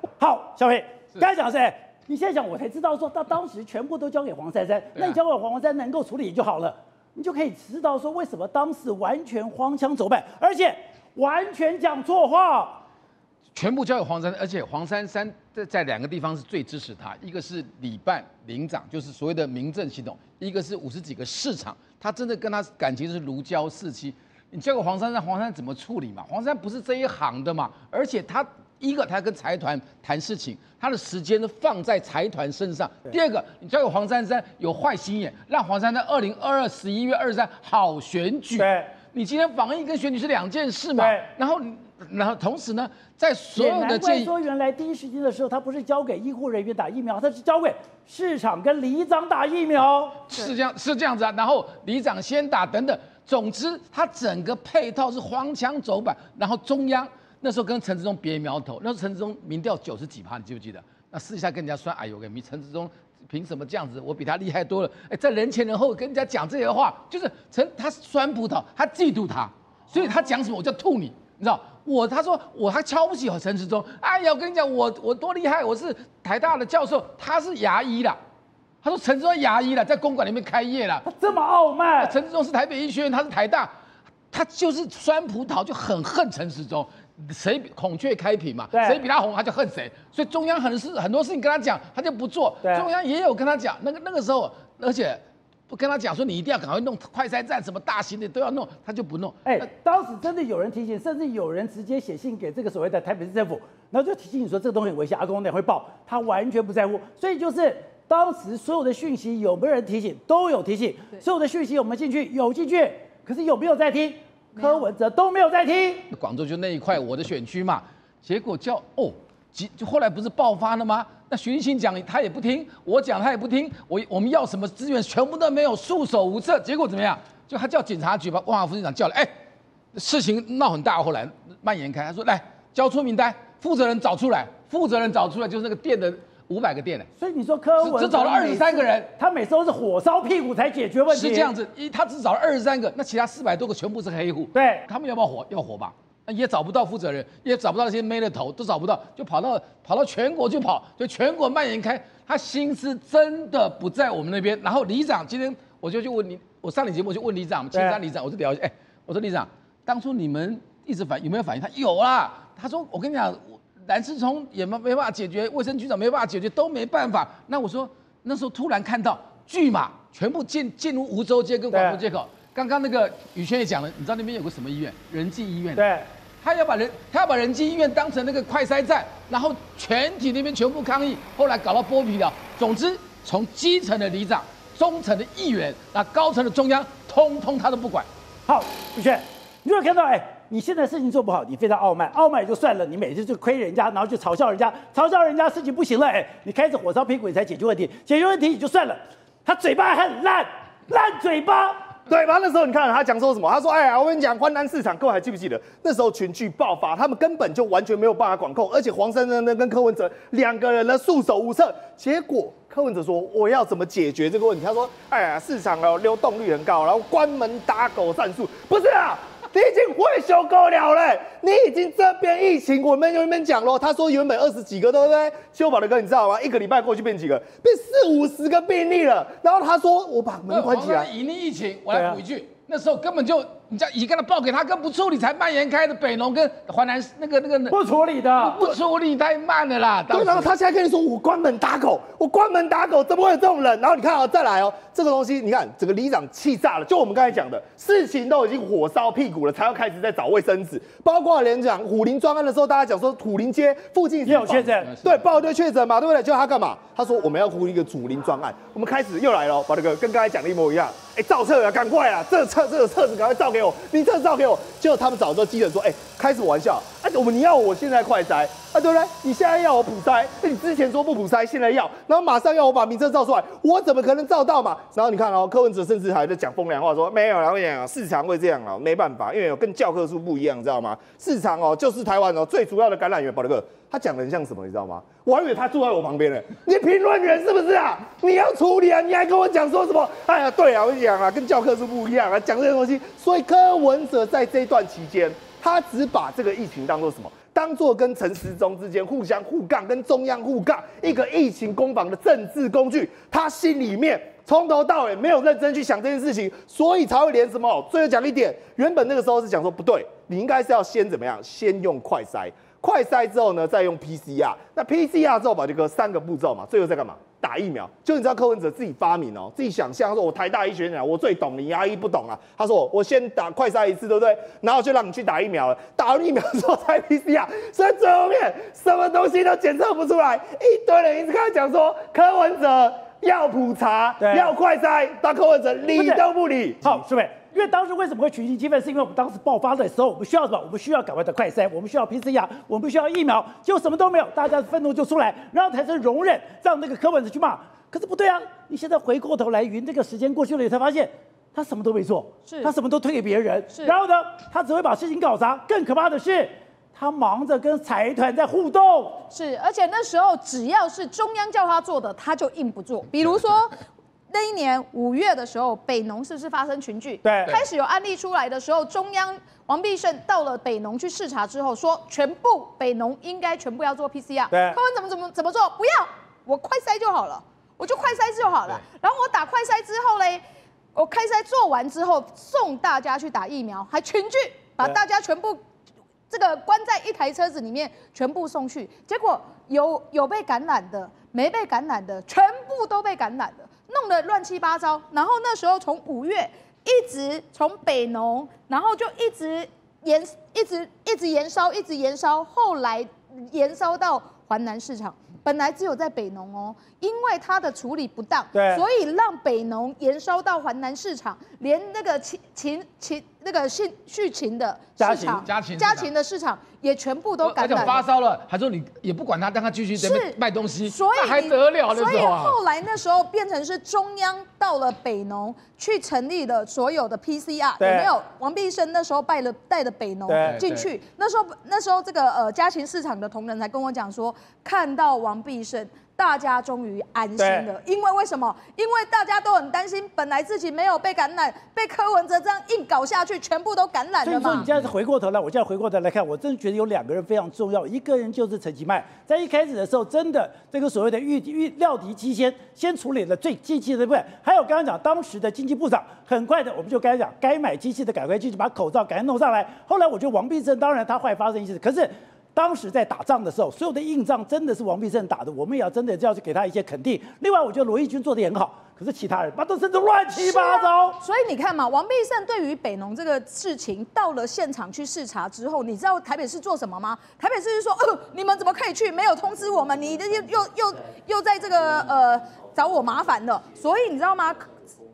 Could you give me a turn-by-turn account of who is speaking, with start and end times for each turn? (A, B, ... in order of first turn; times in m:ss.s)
0:00.2-0:12.8 A
0:13.5-0:44.3 B
0:38.6-0:38.9 A
0:41.0-0:41.3 A
0:43.5-0:50.3 A
0:50.2-1:18.2 B
1:18.8-1:21.0 B
1:21.0-1:22.2 A
1:22.0-1:23.7 B
1:24.3-1:39.7 B
1:28.7-1:29.0 A
1:39.4-1:56.1 A
1:56.1-2:09.3 B
2:09.9-2:17.1 B
2:17.2-2:21.5 A
2:17.8-2:19.1 B
2:21.1-2:55.8 B
2:24.5-2:24.8 A
2:37.7-2:38.0 A
2:51.7-2:52.0 A
2:55.8-2:56.1 A
2:56.4-3:08.1 B
3:08.5-3:21.9 A
3:22.1-3:51.1 C
3:50.5-3:57.8 B
3:51.9-3:52.2 A
3:57.7-3:58.7 A
3:58.4-4:00.5 B
4:00.1-5:37.0 C
4:14.2-4:14.9 A
4:14.7-4:15.3 B
5:34.2-5:34.5 A
5:35.9-5:36.2 A
5:36.8-5:59.2 A
5:53.7-5:54.0 D
5:59.3-6:20.4 D
6:07.2-6:07.5 A
6:14.5-6:14.8 A
6:20.9-6:25.6 D
6:26.3-6:58.0 D
6:48.5-6:48.8 A
6:55.0-6:55.4 A
6:55.3-6:56.1 B
6:57.4-7:02.6 B
7:00.0-7:24.7 D
7:07.8-7:08.1 A
7:10.3-7:10.6 A
7:10.4-7:10.8 B
7:17.4-7:17.6 A
7:24.2-7:51.2 A
7:50.3-8:04.7 D